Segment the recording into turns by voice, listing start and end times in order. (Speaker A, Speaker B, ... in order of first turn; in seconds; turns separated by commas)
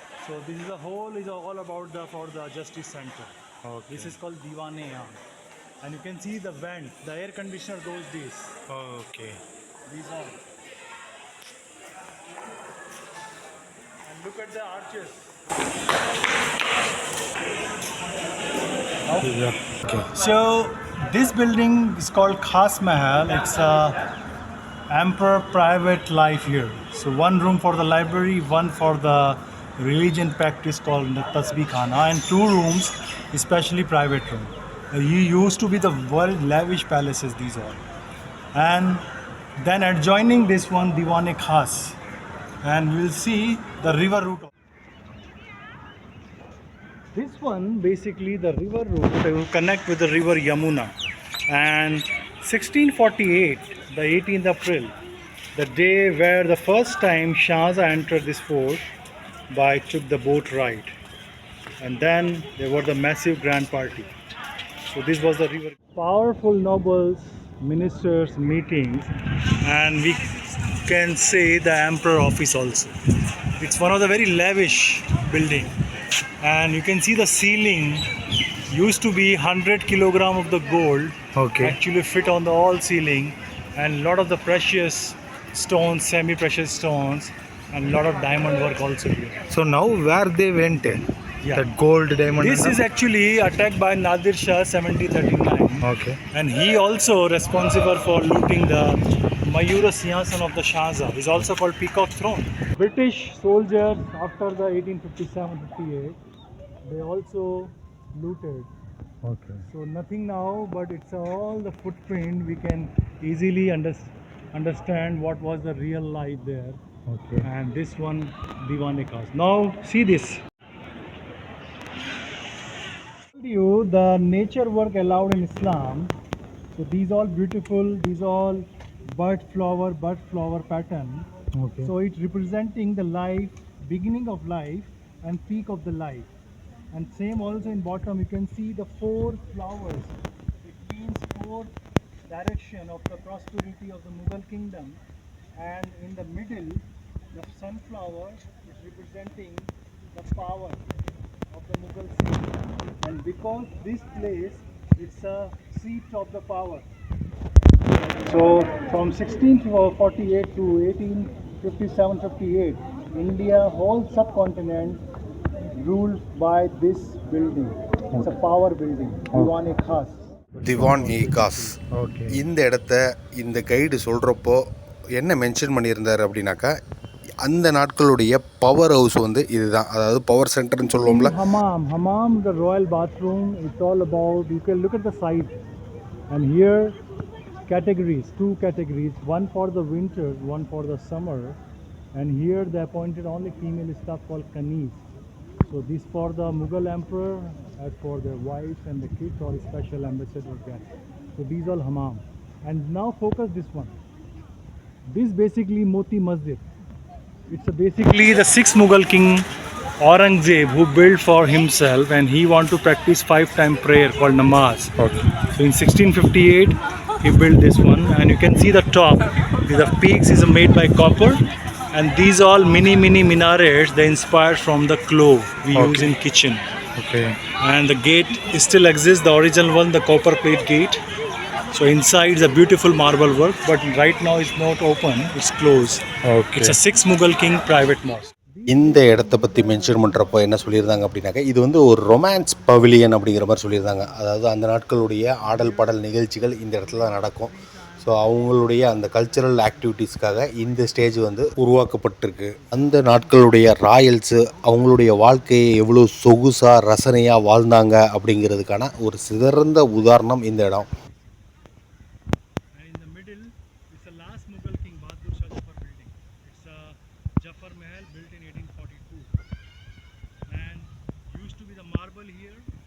Speaker A: 0.2-3.3, Speaker B: 3.6-4.1, Speaker A: 3.9-5.2, Speaker A: 5.8-8.6, Speaker B: 8.7-9.4, Speaker A: 9.9-10.4, Speaker A: 14.0-15.4, Speaker A: 19.1-19.4, Speaker B: 19.2-20.0, Speaker A: 20.1-24.1, Speaker A: 24.9-37.8, Speaker A: 38.5-39.1, Speaker A: 39.6-42.0, Speaker A: 42.6-44.5, Speaker A: 47.1-51.0, Speaker A: 51.5-55.0, Speaker A: 55.5-58.9, Speaker A: 59.5-60.9, Speaker A: 61.8-64.1, Speaker A: 64.9-73.0, Speaker A: 73.5-75.8, Speaker A: 76.4-78.1, Speaker A: 78.7-89.4, Speaker B: 81.4-81.8, Speaker B: 89.5-91.0, Speaker C: 90.0-90.4, Speaker A: 91.4-91.7, Speaker B: 91.6-92.8, Speaker A: 92.3-106.2, Speaker B: 95.8-96.2, Speaker A: 106.8-108.7, Speaker B: 109.2-109.6, Speaker A: 109.7-116.8, Speaker B: 117.1-117.5, Speaker A: 117.4-120.4, Speaker A: 123.3-126.1, Speaker A: 126.7-131.3, Speaker B: 131.6-131.9, Speaker A: 131.8-136.3, Speaker A: 136.9-141.7, Speaker A: 142.3-145.0, Speaker A: 145.6-150.8, Speaker A: 151.5-156.9, Speaker A: 158.2-165.0, Speaker A: 165.8-171.8, Speaker C: 170.6-174.6, Speaker B: 172.0-172.3, Speaker C: 175.2-176.7, Speaker C: 177.4-181.5, Speaker A: 180.9-185.6, Speaker A: 186.3-187.0, Speaker A: 187.7-191.6, Speaker A: 192.1-195.0, Speaker A: 195.7-203.9, Speaker A: 205.1-206.7, Speaker A: 207.5-209.5, Speaker A: 210.0-214.9, Speaker B: 215.0-215.2, Speaker A: 215.5-226.6, Speaker B: 225.8-226.1, Speaker B: 227.0-227.4, Speaker A: 227.6-231.0, Speaker A: 231.7-236.1, Speaker B: 236.3-236.8, Speaker A: 236.6-241.3, Speaker C: 238.7-247.5, Speaker A: 242.0-244.2, Speaker A: 245.4-256.0, Speaker C: 248.0-260.9, Speaker A: 259.7-261.4, Speaker A: 262.7-269.3, Speaker A: 270.5-272.7